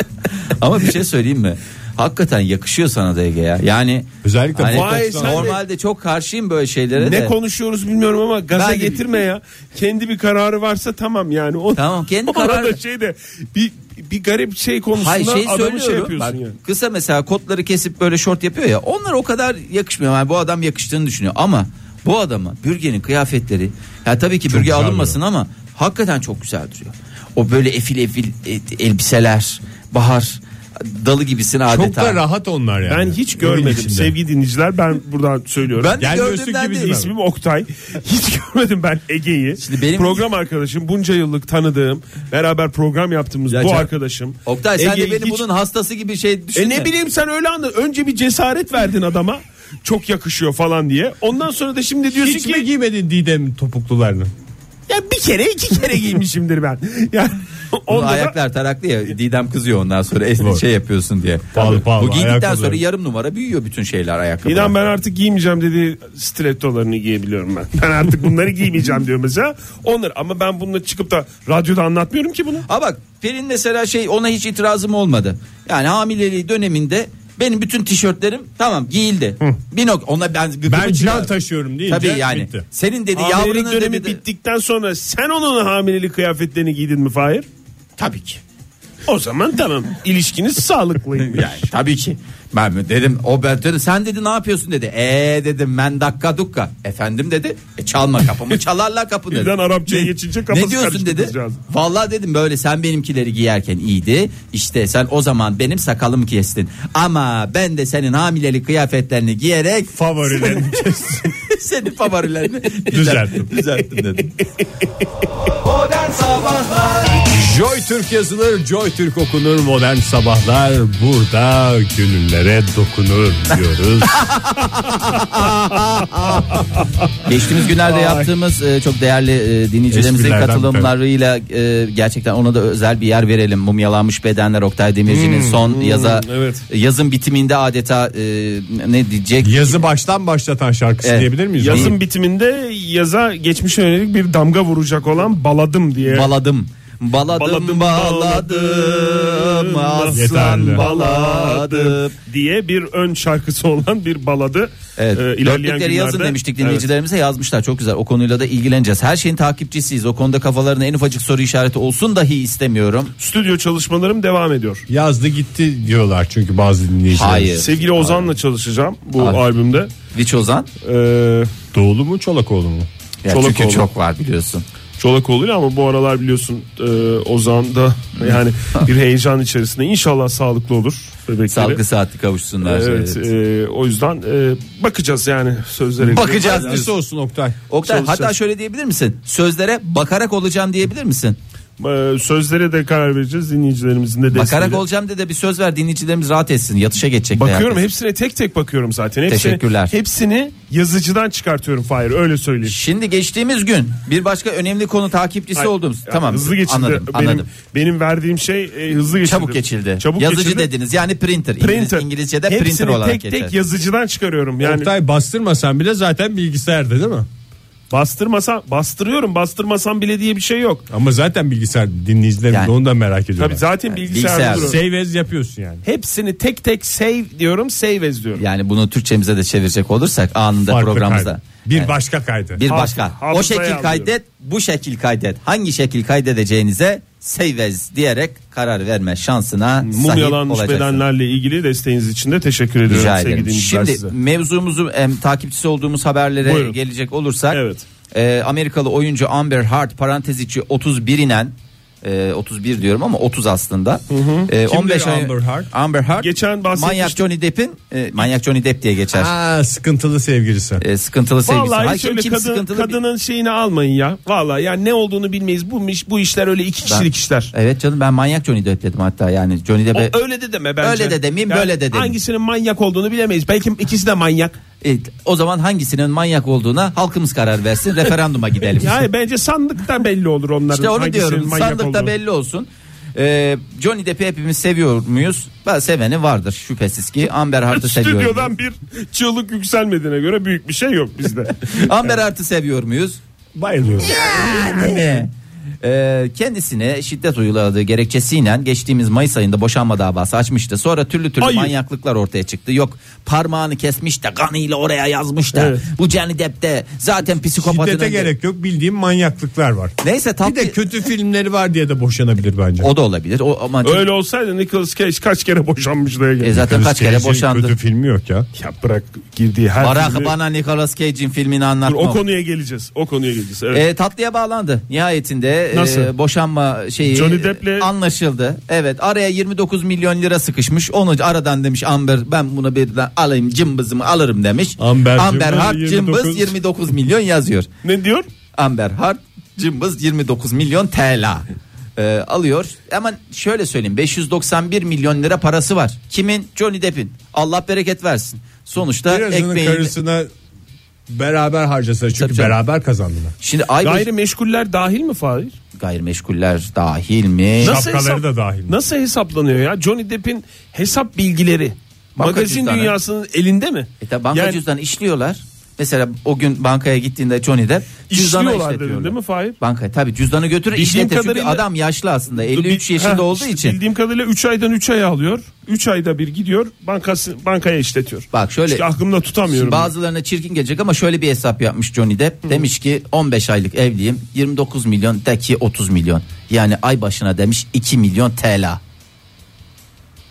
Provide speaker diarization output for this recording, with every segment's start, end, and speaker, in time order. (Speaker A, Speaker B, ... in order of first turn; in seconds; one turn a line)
Speaker A: 0.5-7.3
Speaker B: 4.2-5.5
Speaker C: 4.7-5.6
Speaker C: 7.0-16.6
Speaker A: 8.5-9.1
Speaker A: 11.7-12.8
Speaker A: 14.9-32.2
Speaker B: 24.5-25.2
Speaker B: 31.7-34.1
Speaker C: 32.9-36.0
Speaker A: 35.8-37.0
Speaker B: 36.0-37.1
Speaker C: 36.8-45.4
Speaker A: 39.6-40.2
Speaker A: 43.5-43.9
Speaker A: 44.4-46.9
Speaker C: 46.5-52.7
Speaker B: 52.1-54.3
Speaker C: 54.9-58.4
Speaker A: 57.9-64.8
Speaker B: 61.5-62.8
Speaker C: 64.4-72.7
Speaker A: 72.7-81.3
Speaker B: 80.7-82.6
Speaker A: 81.9-84.2
Speaker C: 83.1-87.5
Speaker A: 88.0-88.4
Speaker C: 89.1-91.7
Speaker A: 91.2-110.7
Speaker C: 99.3-101.6
Speaker B: 109.9-111.4
Speaker A: 111.5-114.4
Speaker B: 112.9-113.5
Speaker A: 115.6-117.2
Speaker B: 117.3-126.6
Speaker A: 124.2-124.5
Speaker A: 127.2-139.8
Speaker C: 127.6-128.3
Speaker B: 129.9-130.9
Speaker C: 135.2-136.6
Speaker B: 139.4-141.9
Speaker A: 141.0-141.9
Speaker C: 141.6-146.3
Speaker A: 146.0-152.1
Speaker C: 147.3-156.8
Speaker B: 150.1-150.8
Speaker A: 155.0-163.1
Speaker C: 163.2-164.8
Speaker B: 164.9-167.6
Speaker A: 167.1-168.3
Speaker C: 167.6-169.9
Speaker A: 170.1-170.7
Speaker C: 170.8-171.5
Speaker B: 171.7-172.9
Speaker A: 173.2-174.6
Speaker C: 173.3-173.9
Speaker C: 175.0-181.8
Speaker A: 178.2-178.8
Speaker A: 181.5-183.2
Speaker C: 182.6-186.8
Speaker A: 186.0-186.9
Speaker B: 186.4-187.6
Speaker A: 187.7-191.4
Speaker C: 187.8-188.3
Speaker C: 191.8-194.8
Speaker A: 194.3-197.8
Speaker C: 197.3-202.8
Speaker A: 199.3-199.9
Speaker A: 202.6-207.5
Speaker C: 205.6-210.7
Speaker A: 209.2-213.5
Speaker C: 211.6-214.9
Speaker B: 214.6-217.3
Speaker C: 217.9-220.9
Speaker B: 220.9-223.7
Speaker C: 223.4-224.8
Speaker A: 223.9-224.7
Speaker B: 224.5-225.8
Speaker C: 225.8-228.4
Speaker A: 228.3-231.9
Speaker B: 230.7-232.6
Speaker A: 232.5-241.0
Speaker C: 232.7-234.1
Speaker C: 239.8-244.1
Speaker A: 242.9-247.6
Speaker C: 246.4-246.8
Speaker C: 247.5-247.8
Speaker A: 248.1-259.3
Speaker C: 254.1-254.5
Speaker B: 254.6-255.7
Speaker C: 256.2-257.2
Speaker B: 259.1-260.8
Speaker A: 260.8-263.0
Speaker C: 261.5-267.5
Speaker A: 266.8-270.1
Speaker C: 269.9-274.5
Speaker A: 270.8-272.1
Speaker A: 274.8-279.0
Speaker C: 278.8-282.1
Speaker A: 280.7-288.5
Speaker C: 287.7-292.2
Speaker A: 291.6-293.2
Speaker B: 293.6-294.1
Speaker C: 293.6-295.0
Speaker A: 294.0-295.3
Speaker A: 295.8-308.3
Speaker C: 301.4-301.7
Speaker C: 305.5-305.9
Speaker B: 307.6-312.9
Speaker A: 310.0-310.8
Speaker A: 312.8-314.0
Speaker C: 313.8-316.6
Speaker A: 316.4-317.7
Speaker B: 316.6-318.5
Speaker C: 318.6-320.3
Speaker A: 319.8-322.2
Speaker C: 321.8-323.8
Speaker A: 323.7-337.7
Speaker C: 325.7-326.1
Speaker C: 327.1-327.9
Speaker B: 334.8-336.6
Speaker C: 337.8-338.3
Speaker A: 338.6-341.4
Speaker A: 342.0-349.9
Speaker B: 349.1-350.3
Speaker B: 351.1-353.3
Speaker A: 352.1-352.6
Speaker A: 353.4-354.1
Speaker C: 353.8-355.5
Speaker A: 355.8-357.8
Speaker C: 357.6-364.6
Speaker B: 357.6-358.8
Speaker A: 362.1-362.9
Speaker A: 364.0-373.8
Speaker C: 368.1-369.6
Speaker C: 370.7-371.6
Speaker C: 372.4-379.9
Speaker A: 378.3-378.8
Speaker A: 379.5-388.8